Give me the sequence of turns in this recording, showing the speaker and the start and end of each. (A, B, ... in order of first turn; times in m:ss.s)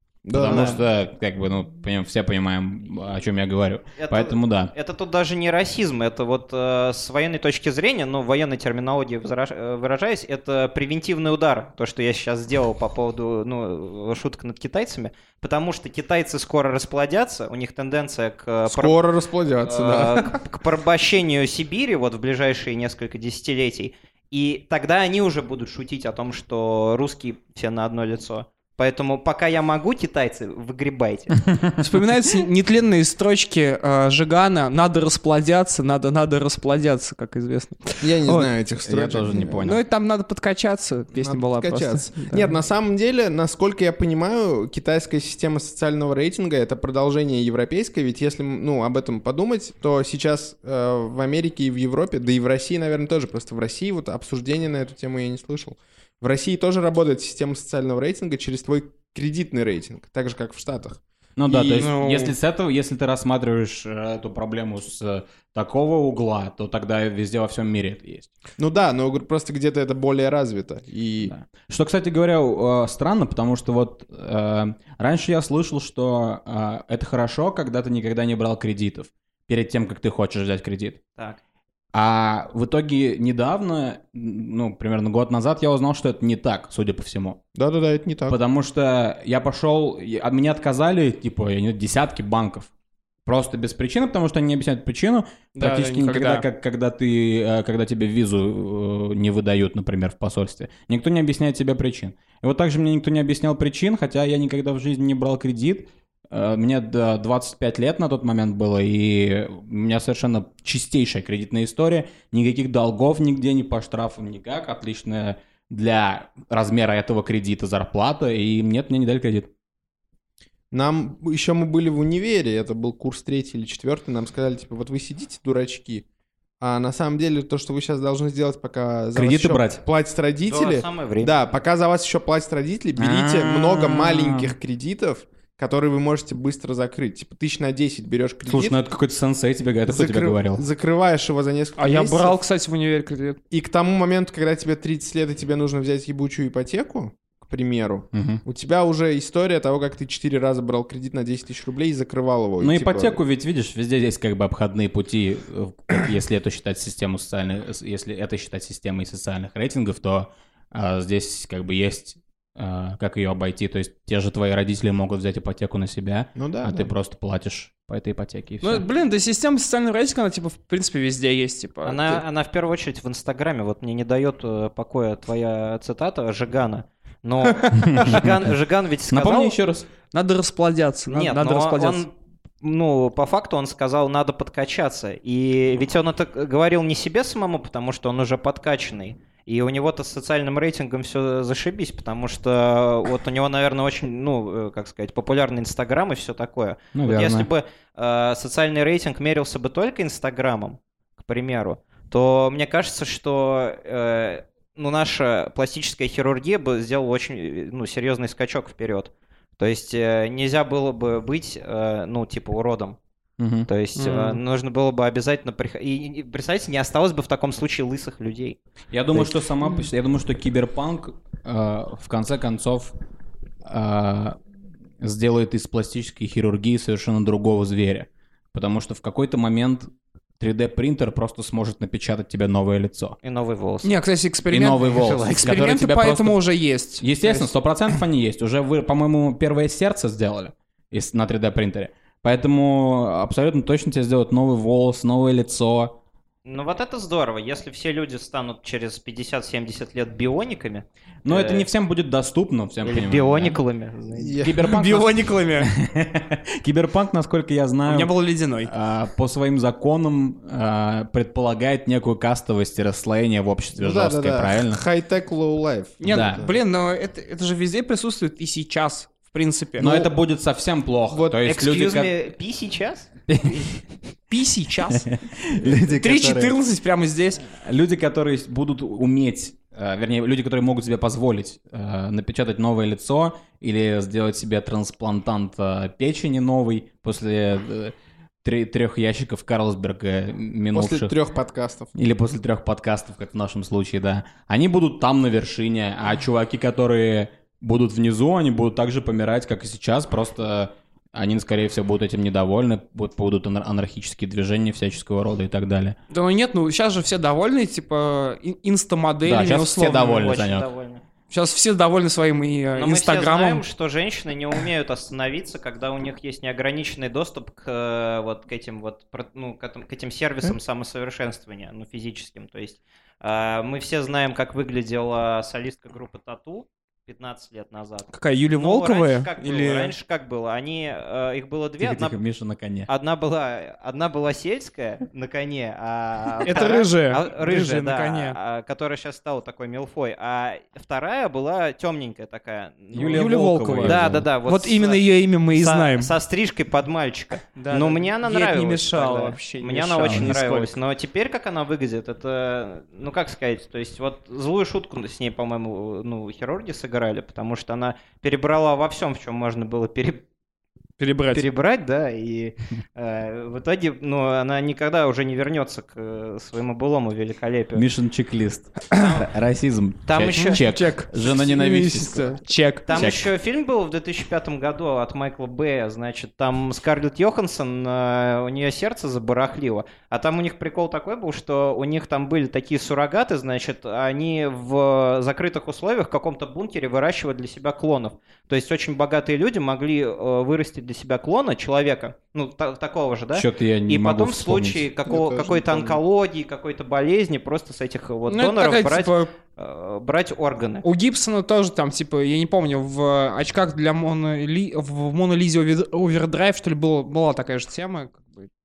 0:00.2-0:00.8 A
0:00.3-0:04.7 B
0:00.4-0:00.8 C
0:04.0-0:18.9 C
0:18.6-0:20.4 A
0:19.6-0:31.3 C
0:31.4-0:31.8 B
0:31.8-0:38.5 D
0:38.0-0:39.6 A
0:38.8-0:39.8 B
0:39.6-0:42.5 D
0:41.1-1:02.0 A
1:01.4-1:08.3 B
1:01.7-1:02.3 D
1:08.6-1:11.3 A
1:11.2-1:21.0 B
1:21.9-1:27.4 B
1:27.5-1:28.4 A
1:28.3-1:32.7 B
1:33.2-1:59.5 B
1:35.6-1:36.4 D
2:00.7-2:06.0 A
2:06.6-2:18.8 A
2:09.1-2:09.8 B
2:10.5-2:11.4 C
2:13.0-2:14.5 B
2:18.4-2:20.6 B
2:19.8-2:22.4 A
2:21.8-2:23.4 D
2:23.5-2:33.2 A
2:28.1-2:28.4 B
2:32.6-2:48.8 B
2:46.3-2:46.9 A
2:48.6-2:52.2 D
2:51.8-2:59.5 C
2:57.4-2:58.2 D
2:57.8-2:58.5 B
2:59.1-2:59.9 B
3:00.1-3:02.0 D
3:01.1-3:33.0 C
3:16.9-3:17.5 B
3:33.4-3:33.7 B
3:33.7-3:38.6 C
3:34.0-3:34.4 D
3:38.9-3:43.0 B
3:43.6-3:44.4 B
3:45.0-3:53.2 B
3:53.2-3:53.9 C
3:53.8-3:57.5 D
3:54.5-3:56.4 B
3:57.0-4:06.0 B
4:06.4-4:11.7 C
4:11.2-4:13.6 B
4:12.8-4:14.4 C
4:14.1-4:14.6 A
4:14.4-4:24.8 B
4:14.6-4:15.7 D
4:17.9-4:18.7 D
4:23.8-4:26.5 A
4:26.0-4:30.1 D
4:26.0-4:26.4 B
4:29.8-4:32.1 B
4:31.2-4:33.1 C
4:33.3-4:33.8 B
4:34.3-4:35.1 D
4:34.9-4:36.6 B
4:35.8-4:37.4 D
4:37.4-4:51.1 B
4:50.7-4:51.9 A
4:51.9-5:06.0 B
5:06.1-5:10.2 D
5:09.2-5:10.6 B
5:09.8-5:11.0 C
5:11.3-5:13.6 D
5:12.7-5:32.2 C
5:28.1-5:29.9 D
5:31.8-5:32.9 B
5:32.9-6:00.2 C
5:36.4-5:38.4 D
5:42.9-5:44.3 B
5:43.0-5:46.1 D
5:47.5-5:50.8 D
5:50.0-5:50.3 B
6:01.0-6:01.4 D
6:01.3-6:07.8 C
6:07.7-6:12.4 B
6:08.9-6:09.3 C
6:10.1-6:10.6 C
6:10.3-6:13.0 D
6:12.9-6:40.8 C
6:12.9-6:13.3 B
6:33.3-6:34.9 B
6:35.0-6:36.0 A
6:38.3-6:39.3 D
6:40.8-6:48.5 D